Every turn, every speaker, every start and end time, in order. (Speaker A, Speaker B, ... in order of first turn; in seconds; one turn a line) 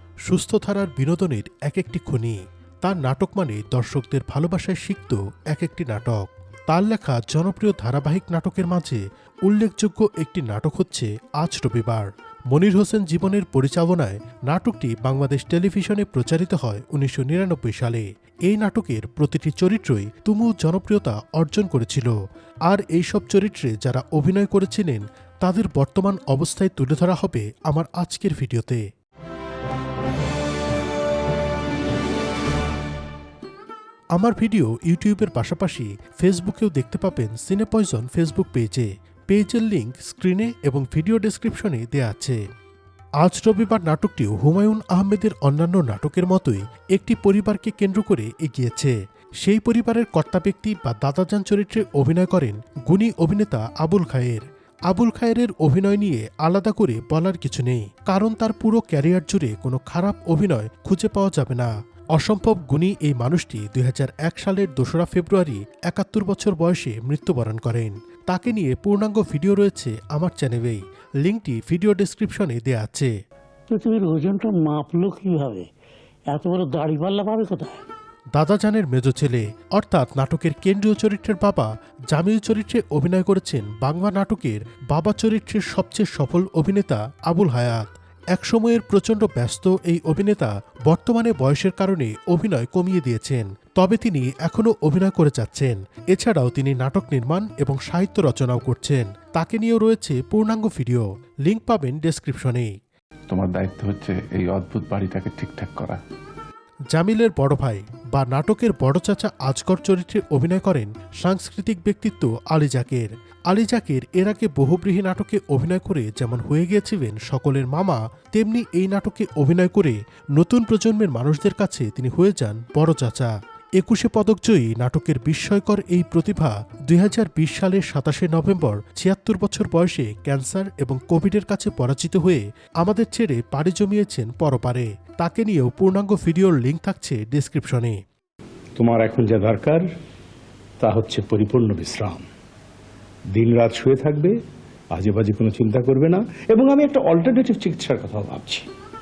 Speaker A: 0.3-22.1
Speaker A: 22.7-28.8
Speaker A: 34.2-42.4
Speaker A: 43.2-73.1
Speaker B: 73.7-75.6
Speaker B: 76.3-77.8
Speaker A: 78.4-102.7
Speaker C: 103.3-106.0
Speaker A: 106.9-138.0
Speaker D: 138.8-139.8
Speaker D: 140.8-142.2
Speaker D: 143.3-144.3
Speaker D: 144.9-148.6